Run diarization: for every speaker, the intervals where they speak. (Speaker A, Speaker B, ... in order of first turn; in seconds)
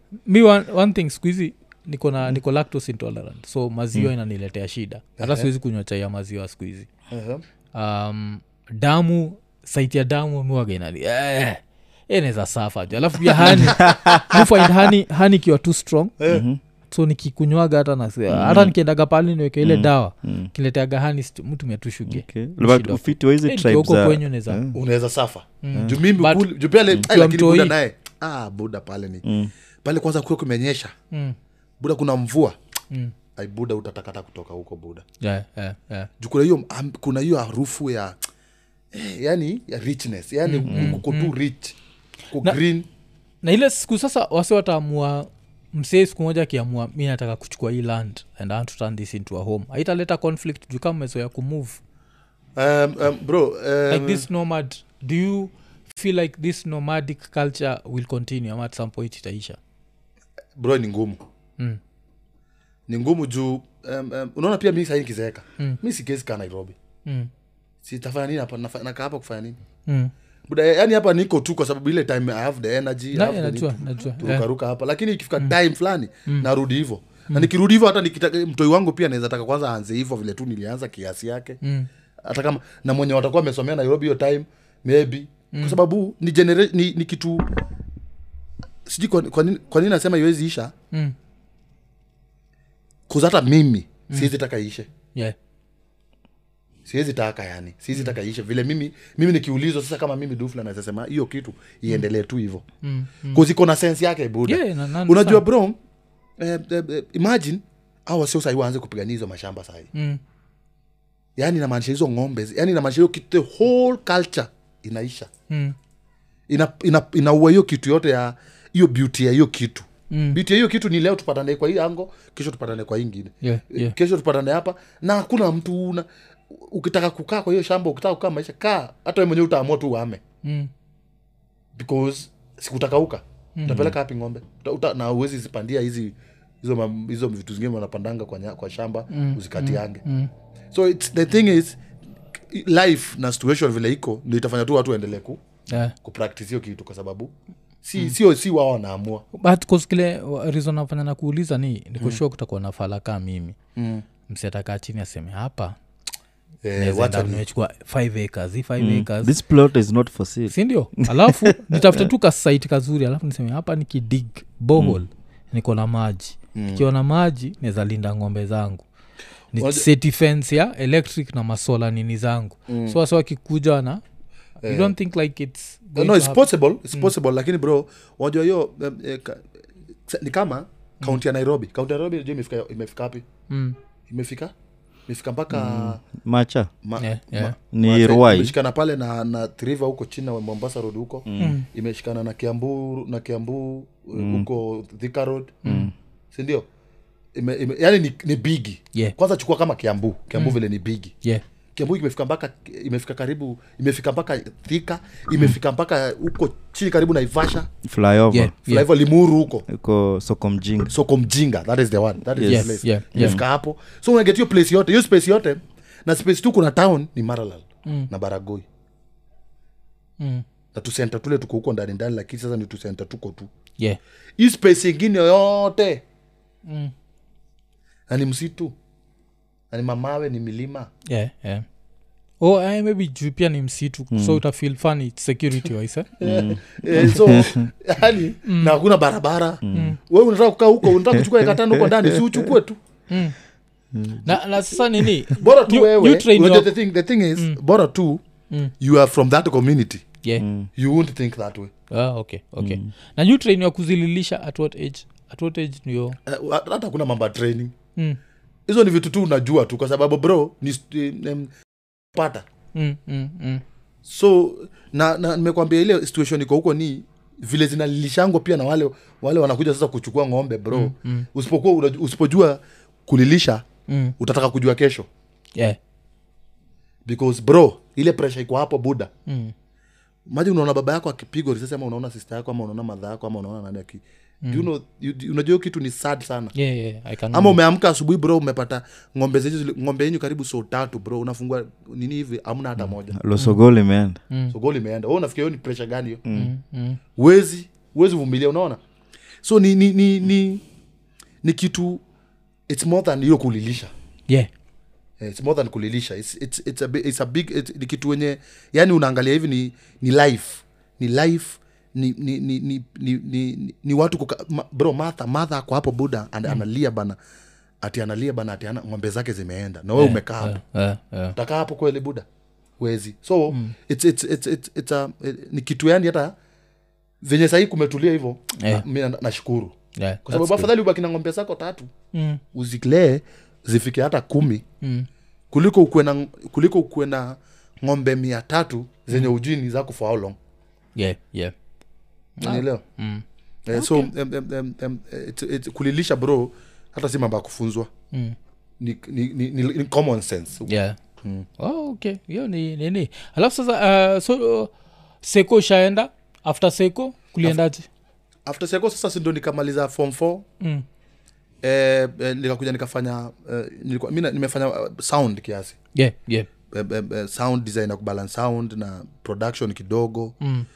Speaker A: 0.2-6.9, 7.7-16.1, 16.9-24.6, 25.6-27.7, 31.1-31.4, 35.2-36.1, 40.4-41.3, 43.4-51.8, 53.9-59.6, 69.9-70.1, 73.1-74.5, 81.6-81.9, 85.5-85.8, 102.8-103.4, 104.5-105.4, 109.9-110.2, 115.5-115.8, 120.1-120.4, 123.4-123.9, 130.4-130.7, 133.6-133.9, 139.1-140.3, 145.7-145.9, 149.3-153.6, 154.3-155.8, 156.8-159.3, 160.5-168.8, 169.5-174.0, 174.6-177.1, 183.5-183.8, 187.0-187.5, 191.4-191.7, 195.6-195.9, 208.3-208.9, 212.4-213.4, 220.2-220.4, 226.7-226.9, 231.1-231.7, 232.4-236.1, 238.4-238.8, 239.7-240.0, 243.1-243.3, 244.2-246.7, 251.9-256.2, 262.7-263.6, 270.7-271.3, 273.9-274.1, 279.3-279.5, 286.5-287.6, 296.3-297.0, 319.9-321.4, 323.5-323.7, 328.6-328.8, 330.0-330.7, 332.1-332.4, 334.8-335.1, 340.9-341.5, 342.4-344.1, 350.6-351.0, 351.6-354.7, 355.2-357.9, 365.9-366.5, 370.4-370.7
Speaker B: 5.2-5.5, 7.1-7.4, 13.4-14.4, 16.2-16.4, 24.7-29.2, 29.8-30.9, 31.8-32.5, 33.4-35.0, 36.2-38.2, 38.9-41.8, 42.3-42.9, 52.5-54.3, 60.5-61.2, 62.9-66.8, 67.8-69.6, 70.5-81.6, 82.2-87.5, 88.8-90.7, 93.1-94.9, 96.8-102.6, 103.3-105.8, 106.4-109.9, 111.3-115.3, 116.5-130.2, 131.7-140.0, 140.7-141.8, 142.5-145.4, 146.0-149.2, 153.8-154.0, 156.6-157.4, 166.5-166.8, 169.6-169.9, 172.7-173.0, 174.6-174.9, 175.9-179.5, 180.1-183.2, 184.1-184.5, 185.1-186.0, 186.8-195.6, 196.3-196.7, 197.3-201.1, 201.7-207.7, 208.6-209.6, 210.9-218.6, 220.7-223.5, 224.4-226.0, 228.1-228.7, 229.7-230.9, 236.2-242.8, 245.4-248.2, 248.8-250.0, 250.8-251.7, 256.2-257.7, 258.7-261.5, 262.1-262.4, 264.0-273.6, 274.2-275.1, 277.1-279.1, 280.3-286.5, 287.3-293.2, 294.5-296.2, 297.1-298.8, 299.4-300.6, 301.4-302.0, 302.7-303.9, 305.2-317.1, 317.8-320.6, 321.3-322.2, 322.8-326.3, 327.2-329.7, 330.2-331.9, 332.5-334.6, 335.5-340.4, 342.4-342.8, 343.6-347.9, 348.8-350.7, 351.2-351.5, 358.4-360.4, 361.6-365.8, 366.7-370.4
Speaker C: 13.7-14.4, 16.3-16.6, 18.3-18.7, 19.6-20.5, 22.1-24.8, 25.7-26.0, 29.2-29.5, 40.7-41.0, 158.8-162.1, 185.5-186.7, 187.7-188.5, 191.3-191.5, 194.2-194.5, 195.7-195.9, 207.8-208.5, 209.7-210.9, 212.4-213.4, 234.1-234.4, 236.2-237.7, 239.6-239.9, 240.9-242.2, 243.9-245.1, 250.4-250.7, 252.6-252.8, 292.8-294.2, 296.2-296.5